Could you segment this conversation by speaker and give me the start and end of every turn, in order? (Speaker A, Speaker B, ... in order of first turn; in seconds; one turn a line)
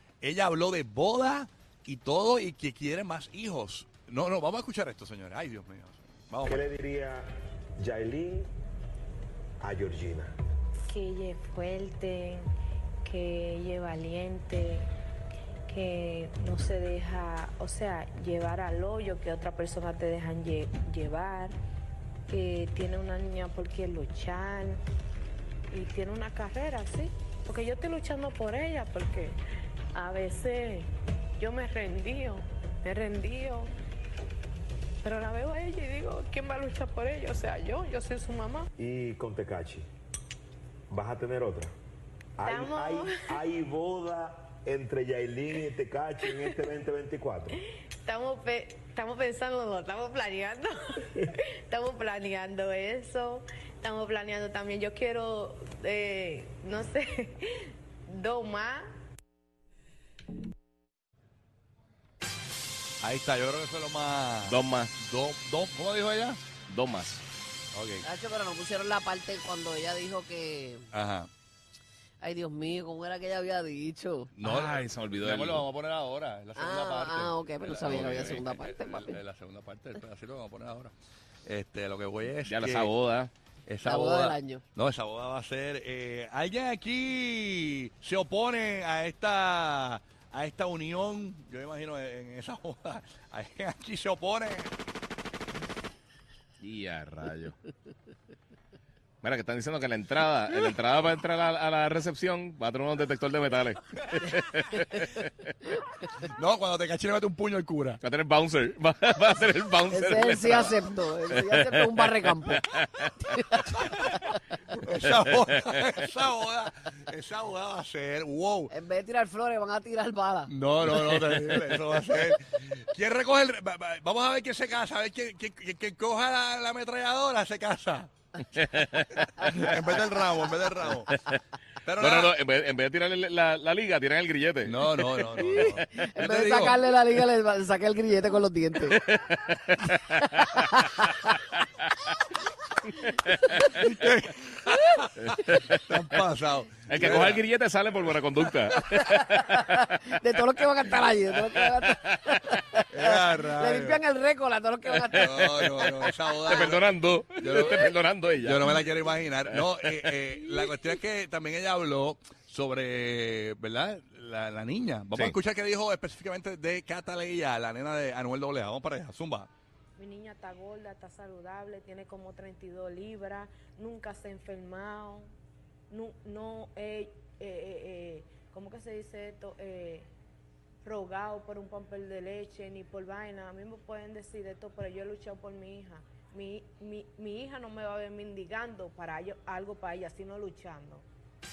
Speaker A: 0.2-6.6
Speaker B: 6.4-8.5
Speaker B: 9.6-10.3
Speaker C: 10.9-12.5
Speaker C: 13.0-14.9
Speaker C: 15.7-21.5
Speaker C: 22.3-24.8
Speaker C: 25.7-29.4
Speaker C: 29.9-33.7
Speaker C: 35.0-38.7
Speaker B: 38.8-39.9
Speaker B: 40.9-41.7
Speaker B: 42.4-47.6
Speaker C: 42.4-43.3
Speaker C: 47.6-58.9
Speaker A: 63.0-66.4
Speaker D: 64.4-64.9
Speaker D: 66.7-67.2
Speaker A: 67.7-68.0
Speaker E: 68.0-70.8
Speaker A: 70.9-71.3
Speaker E: 72.2-74.3
Speaker A: 74.3-80.9
Speaker D: 74.4-75.7
Speaker E: 76.5-79.2
Speaker D: 77.9-78.4
Speaker A: 81.5-82.9
Speaker D: 82.4-83.3
Speaker A: 83.7-94.7
Speaker E: 83.8-84.6
Speaker D: 96.6-97.5
Speaker D: 99.2-105.5
Speaker A: 106.2-108.0
Speaker D: 108.0-113.8
Speaker E: 109.9-112.7
Speaker E: 113.3-113.6
Speaker A: 113.7-114.1
Speaker A: 114.7-118.7
Speaker E: 118.7-120.5
Speaker A: 120.5-128.1
Speaker D: 128.5-129.7
Speaker A: 129.4-131.1
Speaker A: 131.8-132.3
Speaker D: 132.0-135.2
Speaker A: 134.7-136.8
Speaker E: 135.4-139.0
Speaker D: 139.0-142.1
Speaker E: 140.5-141.3
Speaker D: 143.0-143.8
Speaker A: 143.6-147.4
Speaker D: 145.2-146.0
Speaker D: 146.9-150.2
Speaker E: 149.2-156.7
Speaker D: 151.4-152.6
Speaker A: 152.9-154.0
Speaker D: 155.1-155.3
Speaker A: 155.1-156.8
Speaker D: 156.4-158.8
Speaker A: 157.4-169.5
Speaker D: 159.5-160.2
Speaker C: 170.0-175.3
Speaker C: 175.9-180.1
Speaker C: 180.8-191.0